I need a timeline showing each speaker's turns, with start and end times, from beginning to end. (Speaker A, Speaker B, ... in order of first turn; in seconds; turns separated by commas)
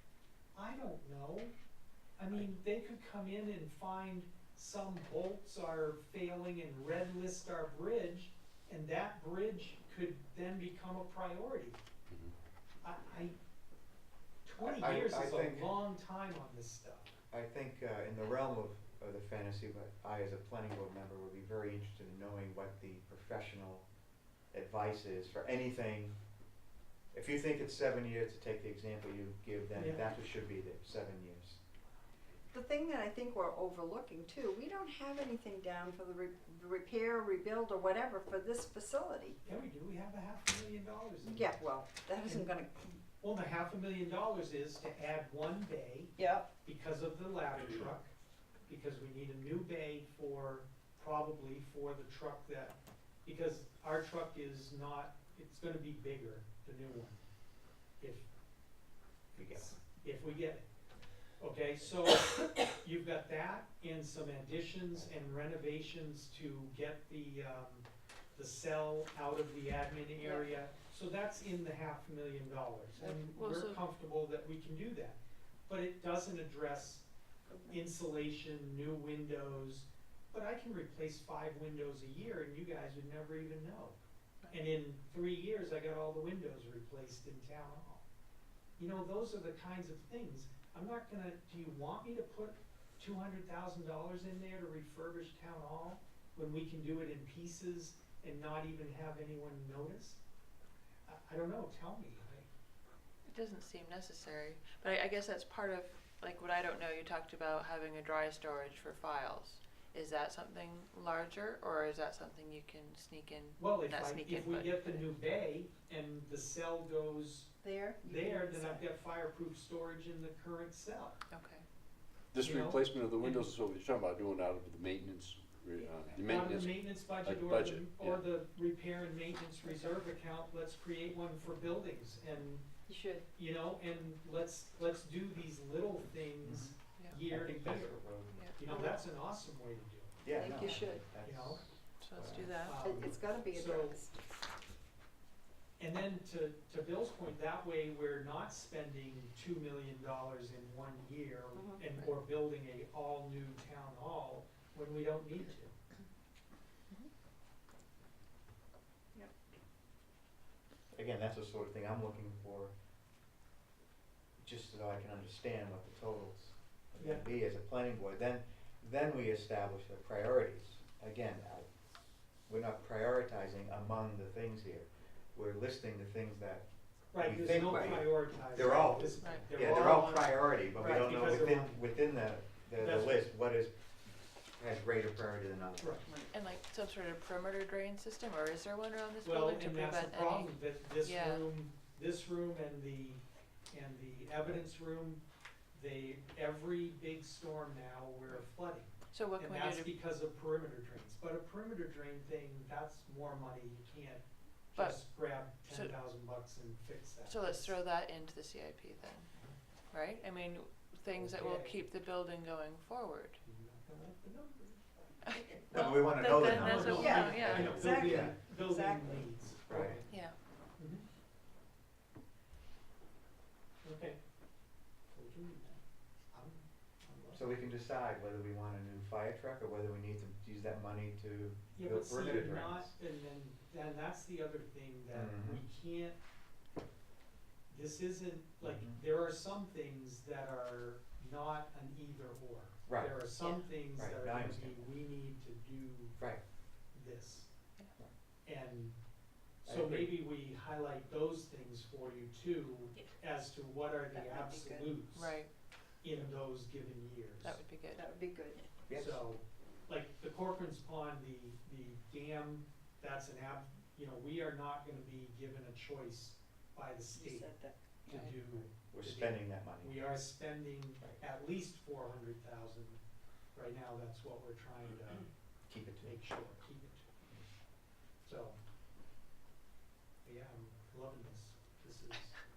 Speaker A: 0.5-1.5, Speaker A: 2.2-11.8, Speaker A: 12.8-13.4, Speaker A: 14.4-17.2, Speaker B: 14.6-15.7, Speaker B: 17.3-23.9, Speaker B: 24.5-26.1, Speaker B: 27.1-31.6, Speaker A: 29.8-30.1, Speaker C: 32.5-39.4, Speaker A: 39.5-41.5, Speaker C: 41.2-43.0, Speaker A: 42.2-42.5, Speaker A: 43.2-48.1, Speaker C: 46.2-46.5, Speaker A: 48.7-57.2, Speaker A: 58.0-58.3, Speaker B: 59.4-59.7, Speaker A: 59.5-60.6, Speaker A: 61.4-77.0, Speaker D: 73.0-73.8, Speaker C: 77.5-77.8, Speaker A: 77.7-84.0, Speaker A: 84.5-88.1, Speaker A: 88.8-100.2, Speaker A: 101.1-102.5, Speaker D: 103.3-115.1, Speaker A: 113.6-117.5, Speaker C: 117.6-118.8, Speaker A: 118.0-121.2, Speaker D: 121.3-121.7, Speaker E: 122.3-128.2, Speaker A: 122.4-123.5, Speaker A: 126.2-132.7, Speaker C: 132.9-133.3, Speaker A: 133.3-138.0, Speaker B: 136.4-138.4, Speaker D: 138.3-138.6, Speaker A: 138.6-140.2, Speaker C: 138.7-139.0, Speaker B: 140.2-142.6, Speaker C: 140.3-141.1, Speaker A: 141.2-141.6, Speaker D: 142.0-142.8, Speaker A: 142.6-144.0, Speaker C: 142.8-144.1, Speaker A: 145.8-155.8, Speaker C: 151.6-151.8, Speaker B: 160.9-162.7, Speaker B: 164.4-171.7, Speaker A: 167.0-167.2, Speaker B: 172.5-176.7, Speaker A: 177.1-181.8, Speaker B: 177.2-183.8, Speaker A: 182.8-183.2, Speaker B: 184.6-186.2, Speaker A: 185.8-186.1, Speaker D: 186.3-191.5, Speaker A: 189.2-195.2, Speaker A: 195.7-204.2, Speaker D: 199.1-199.9, Speaker D: 204.8-205.1, Speaker A: 204.8-207.8, Speaker D: 205.7-205.9, Speaker D: 207.3-209.3, Speaker D: 209.9-213.4, Speaker A: 211.2-211.8, Speaker A: 213.4-220.1, Speaker D: 215.3-217.9, Speaker B: 215.7-218.4, Speaker C: 216.9-219.2, Speaker B: 219.7-220.0, Speaker D: 220.1-220.4, Speaker A: 220.8-221.0, Speaker A: 223.8-224.2, Speaker A: 225.1-227.5, Speaker B: 227.3-232.9, Speaker A: 231.8-236.2, Speaker B: 235.1-235.6, Speaker A: 237.7-246.2, Speaker B: 238.6-239.0, Speaker B: 242.9-243.2, Speaker D: 243.4-243.7, Speaker B: 243.9-244.9, Speaker A: 246.9-247.5, Speaker A: 248.4-249.0, Speaker B: 249.6-250.2, Speaker A: 249.7-255.3, Speaker C: 254.1-255.0, Speaker D: 255.1-255.5, Speaker A: 256.0-257.6, Speaker D: 257.4-258.1, Speaker C: 257.9-258.7, Speaker B: 258.9-259.2, Speaker A: 258.9-267.5, Speaker C: 267.1-267.8, Speaker A: 268.1-273.0, Speaker D: 268.1-268.4, Speaker B: 268.5-270.0, Speaker A: 273.5-275.3, Speaker B: 275.7-276.2, Speaker A: 276.0-277.0, Speaker A: 278.2-278.6, Speaker A: 280.2-282.3